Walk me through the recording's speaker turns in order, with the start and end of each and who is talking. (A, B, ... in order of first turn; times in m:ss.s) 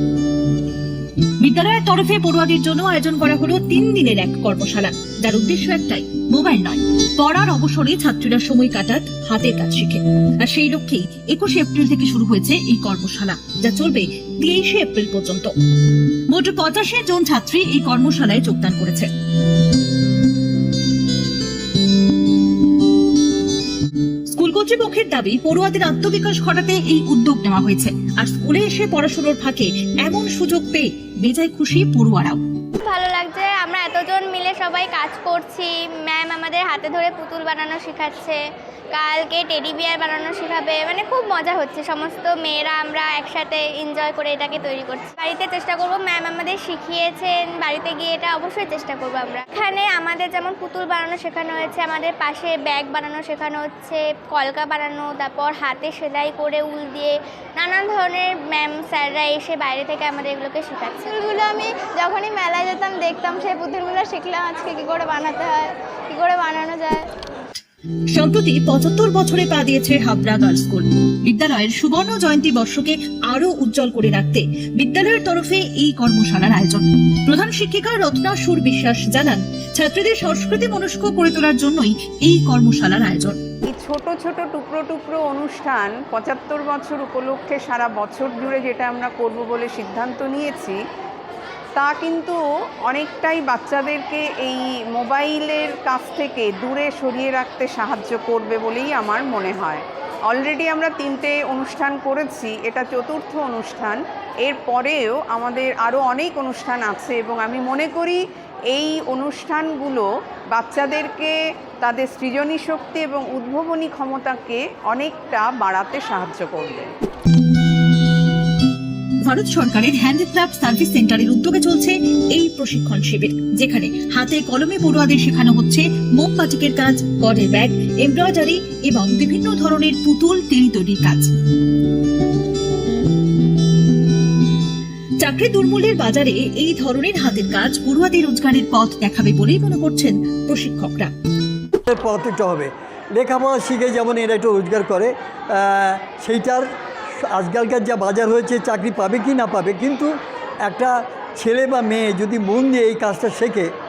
0:01.4-0:15.5 A
0:16.3-0:19.1 A
0:24.3-0:32.4 A
0:32.8-0:38.4 B
0:38.9-1:01.4 B
1:01.2-1:07.1 C
1:08.1-1:23.4 A
1:23.7-1:30.8 D
1:31.8-1:56.9 D
1:59.2-2:11.3 A
2:15.2-2:21.1 A
2:21.9-2:26.7 E
2:27.2-2:30.1 E
2:30.6-2:33.7 E